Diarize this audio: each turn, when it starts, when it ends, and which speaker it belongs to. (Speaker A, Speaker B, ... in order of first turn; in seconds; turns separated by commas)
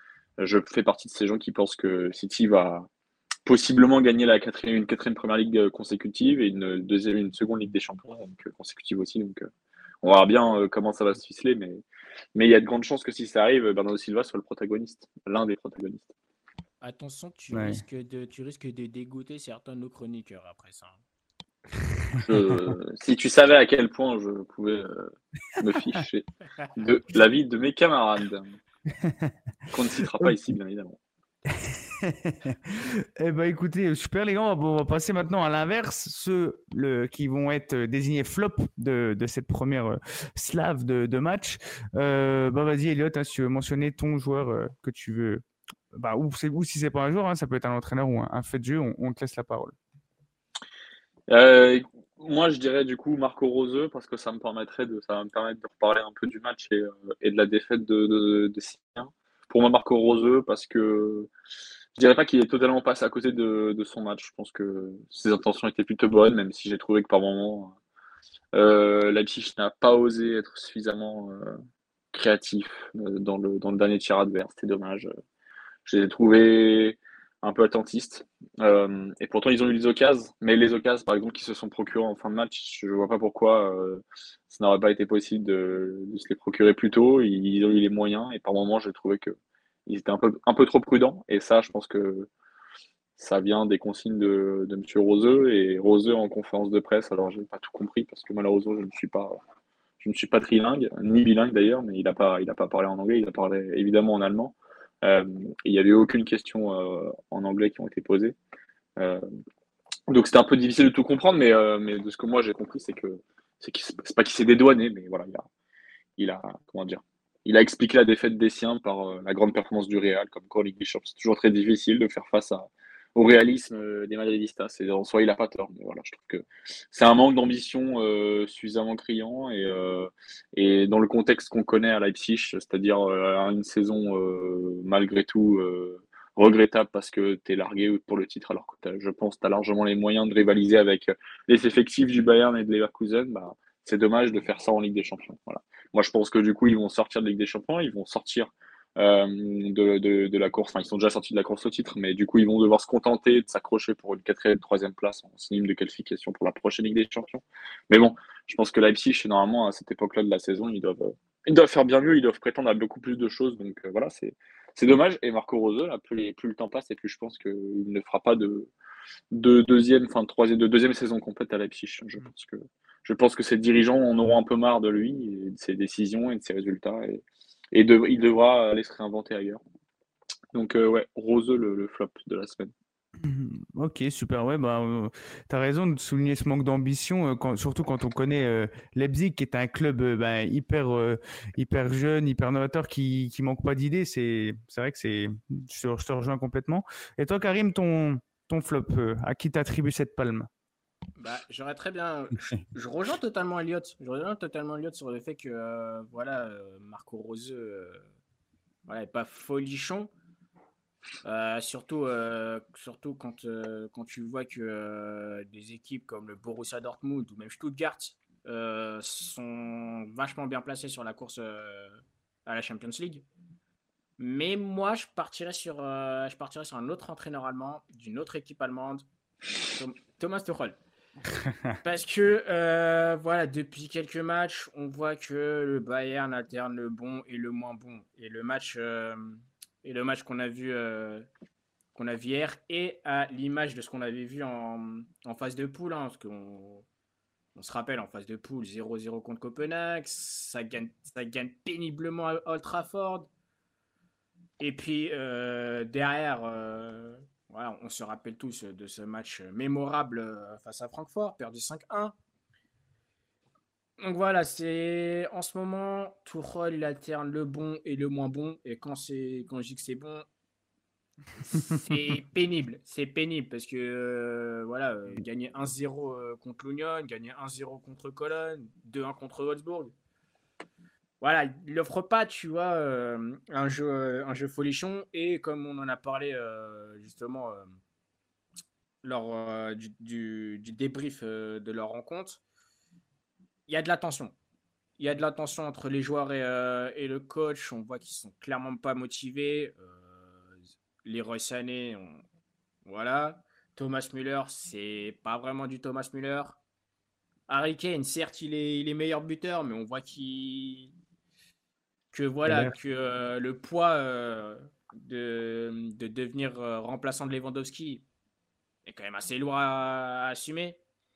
Speaker A: 0.4-2.9, Speaker A: 3.5-9.5, Speaker A: 10.0-11.8, Speaker A: 12.3-16.1, Speaker B: 16.8-21.0, Speaker C: 17.5-17.8, Speaker A: 22.1-28.6, Speaker C: 29.0-29.3, Speaker A: 29.7-31.0, Speaker C: 31.6-45.4, Speaker C: 45.9-49.7, Speaker A: 51.3-61.3, Speaker A: 62.0-67.7, Speaker A: 68.5-71.6, Speaker A: 72.1-75.1, Speaker A: 75.8-89.4, Speaker A: 89.9-92.3, Speaker A: 93.2-99.4, Speaker A: 100.0-108.4, Speaker A: 109.0-109.2, Speaker A: 110.1-115.5, Speaker A: 116.2-168.7, Speaker A: 169.3-179.6, Speaker A: 180.5-182.7, Speaker C: 183.2-200.5, Speaker B: 201.2-208.1, Speaker B: 208.9-210.1, Speaker B: 211.2-223.2, Speaker B: 224.2-229.1, Speaker B: 229.6-230.8, Speaker C: 231.4-231.7, Speaker B: 231.8-241.3, Speaker B: 241.9-246.8, Speaker B: 247.6-253.3, Speaker B: 254.6-262.1, Speaker B: 264.0-270.2, Speaker B: 271.4-279.9, Speaker B: 281.2-287.7, Speaker B: 289.0-292.4, Speaker B: 293.7-294.3, Speaker B: 295.0-302.2, Speaker B: 302.8-306.6, Speaker B: 307.5-310.9, Speaker B: 312.1-318.0, Speaker C: 312.4-312.7, Speaker B: 318.9-320.8